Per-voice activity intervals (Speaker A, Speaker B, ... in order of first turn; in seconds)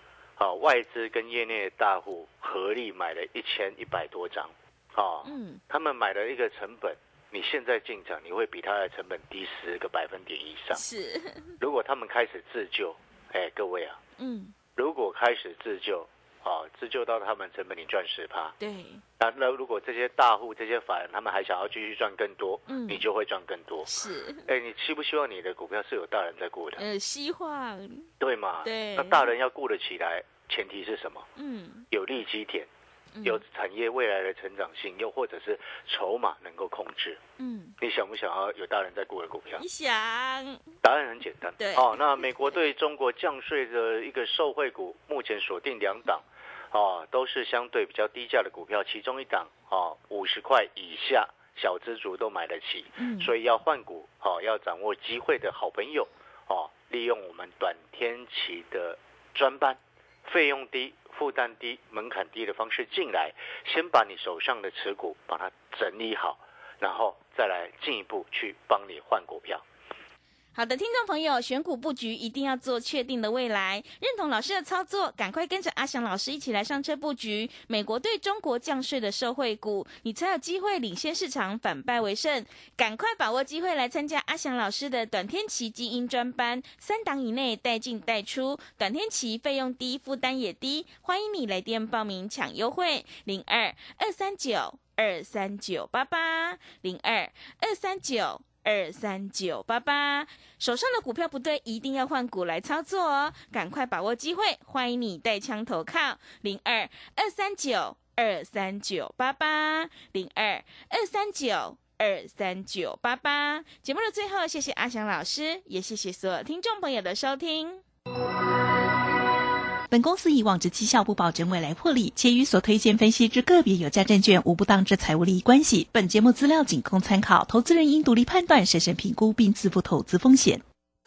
Speaker A: 0.4-10.8, 11.6-14.0, 14.8-18.5, 19.2-23.9, 24.5-26.8, 28.2-31.3, 31.9-32.7, 33.2-37.2, 37.8-39.6, 40.8-69.6
Speaker B: 5.2-5.6, 10.7-11.5, 14.2-14.5, 18.6-19.0, 22.7-23.0, 23.9-24.5, 26.8-28.1, 28.6-29.3, 31.4-31.9, 33.1-33.4, 37.4-37.8, 39.6-40.6, 41.6-42.0, 53.0-53.3, 70.5-117.8
Speaker C: 119.9-130.6